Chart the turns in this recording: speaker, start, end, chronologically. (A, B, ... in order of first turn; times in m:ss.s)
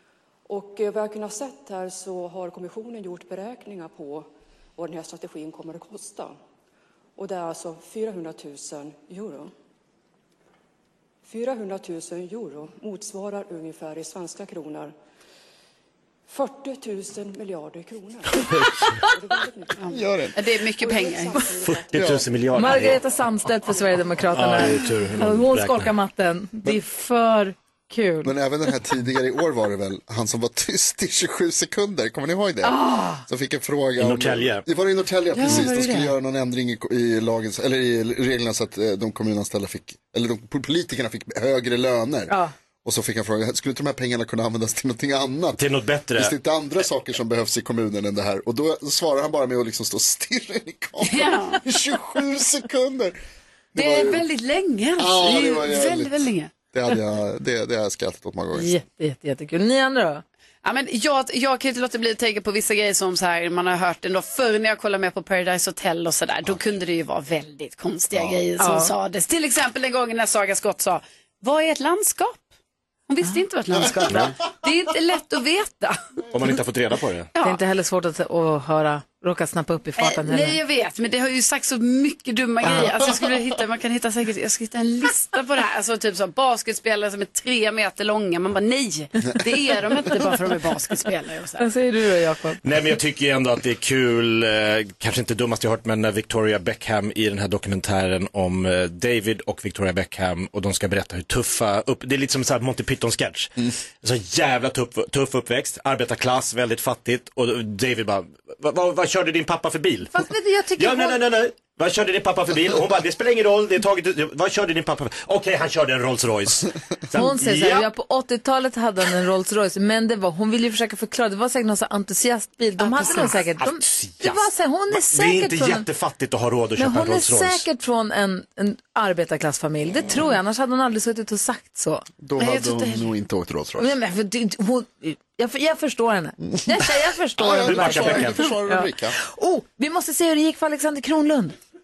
0:00.5-0:06.4 A
0:07.2-0:09.5 A
0:11.2-0:14.9 A
0:16.3-0:20.0 A
0:19.8-0:21.6 B
0:19.9-0:20.4 C
0:20.8-0:22.1 A
0:21.7-0:23.0 D
0:21.9-0:22.3 C
0:22.5-0:28.3 E
0:24.3-0:25.9 D
0:28.2-0:45.6 C
0:32.6-0:33.2 E
0:34.0-0:34.6 D
0:35.4-0:36.1 E
0:45.6-0:46.3 D
0:46.1-0:53.2 C
0:51.0-0:51.6 B
0:53.7-0:54.2 C
0:53.8-0:56.5 B
0:55.0-0:58.7 C
0:58.5-1:00.2 E
1:00.6-1:12.5 B
1:08.1-1:08.4 C
1:08.6-1:08.9 E
1:13.1-1:15.9 B
1:16.3-1:17.3 D
1:17.4-1:20.6 E
1:20.0-1:31.7 B
1:31.6-1:32.6 E
1:32.6-1:57.9 D
1:50.1-1:51.2 E
1:57.1-2:05.8 E
2:02.8-2:03.4 B
2:03.6-2:07.6 D
2:06.8-2:12.1 E
2:12.2-2:14.0 C
2:12.4-2:13.1 B
2:13.8-2:21.6 E
2:16.5-2:19.2 C
2:17.6-2:18.5 D